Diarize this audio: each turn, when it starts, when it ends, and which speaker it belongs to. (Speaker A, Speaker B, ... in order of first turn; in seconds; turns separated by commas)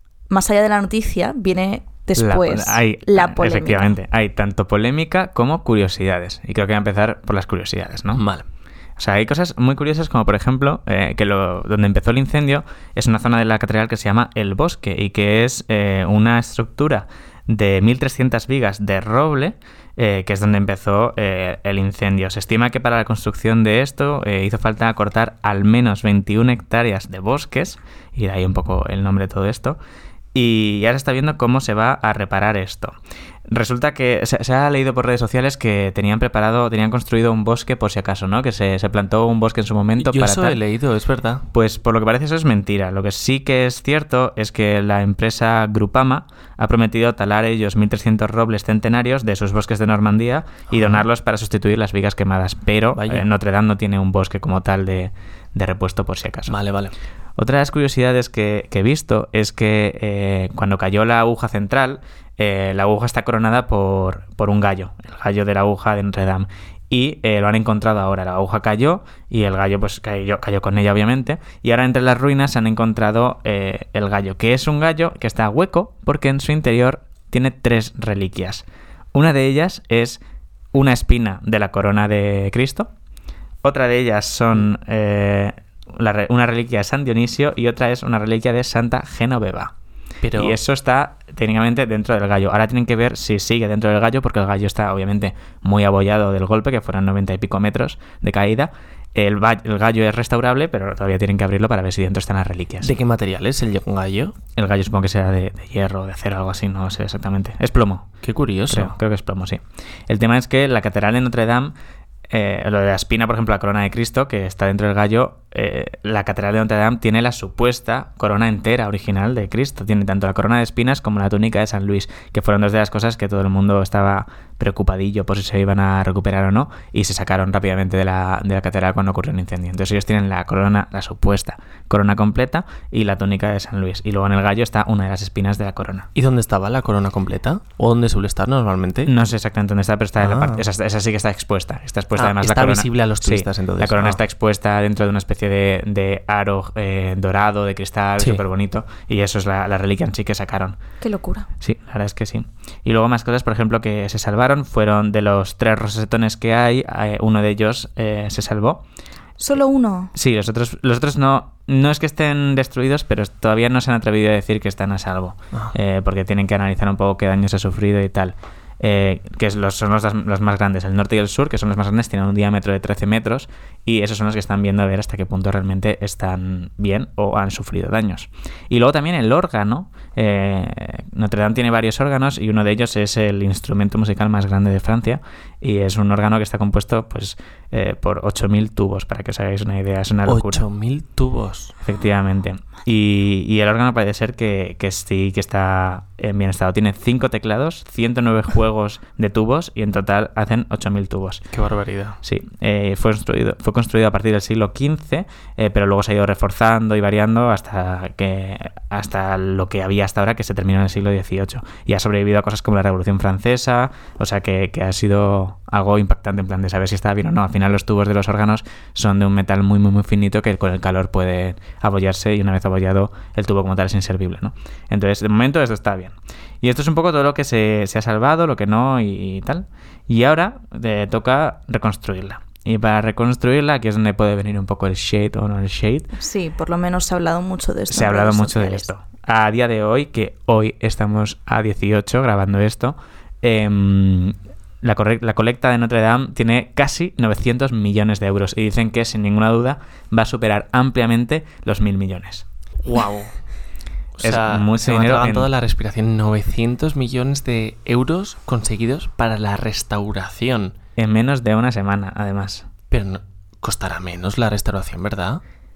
Speaker A: 0.3-3.9, Speaker B: 2.2-8.2, Speaker C: 8.1-8.5, Speaker B: 9.0-29.8, Speaker B: 30.3-33.0, Speaker B: 33.5-40.6, Speaker C: 40.0-41.5, Speaker B: 41.5-56.6, Speaker C: 50.7-51.0, Speaker C: 53.0-53.3, Speaker C: 56.5-56.9, Speaker B: 57.4-80.2, Speaker B: 80.7-82.9, Speaker B: 83.6-89.7, Speaker C: 90.2-90.6, Speaker B: 90.3-102.9, Speaker C: 102.8-104.4, Speaker B: 104.6-108.1, Speaker C: 108.2-108.9, Speaker B: 108.7-111.7, Speaker B: 112.3-136.1, Speaker C: 136.2-139.1, Speaker B: 139.1-150.8, Speaker C: 140.2-140.6, Speaker C: 142.2-144.2, Speaker A: 151.0-151.5, Speaker B: 151.6-158.8, Speaker A: 159.4-160.1, Speaker B: 160.2-190.6, Speaker C: 190.3-191.8, Speaker B: 191.8-201.4, Speaker C: 201.5-202.2, Speaker B: 202.2-236.1, Speaker A: 236.1-238.9, Speaker B: 237.9-252.5, Speaker C: 252.8-253.4, Speaker C: 254.2-260.8, Speaker B: 254.2-255.5, Speaker B: 261.0-262.7, Speaker C: 262.9-265.4